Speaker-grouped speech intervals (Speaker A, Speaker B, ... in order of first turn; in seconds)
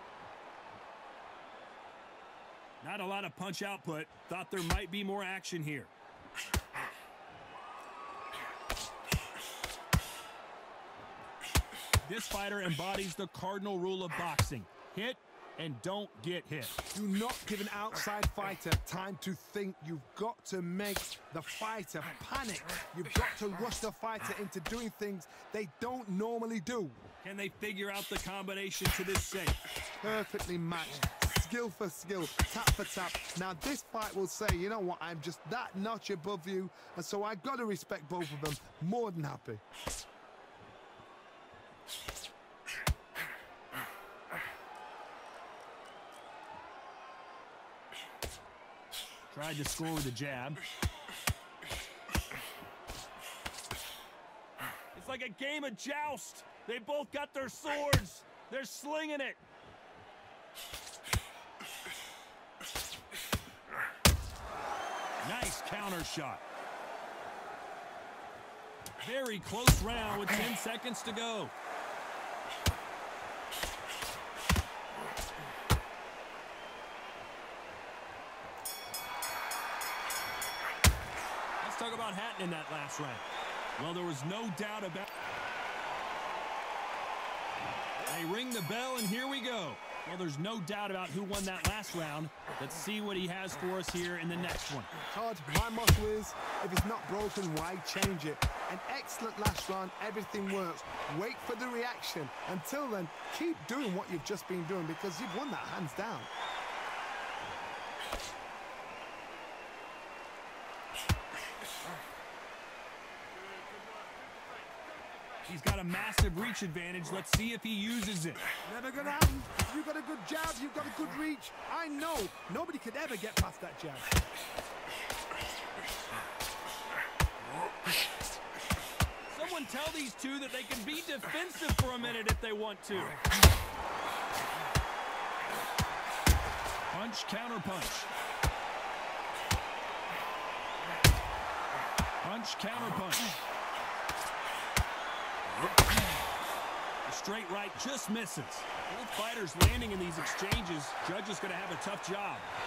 Speaker A: 2.8-5.9, 12.0-16.8, 27.2-29.6, 49.3-50.6, 54.9-59.4, 65.2-66.4, 69.0-71.5, 81.6-83.2, 83.8-85.1, 88.0-94.9, 115.5-118.4, 129.3-133.1, 136.9-138.1, 142.2-143.3, 147.0-152.5
Speaker B: 16.9-27.0, 30.0-39.6, 95.1-106.3, 118.6-124.0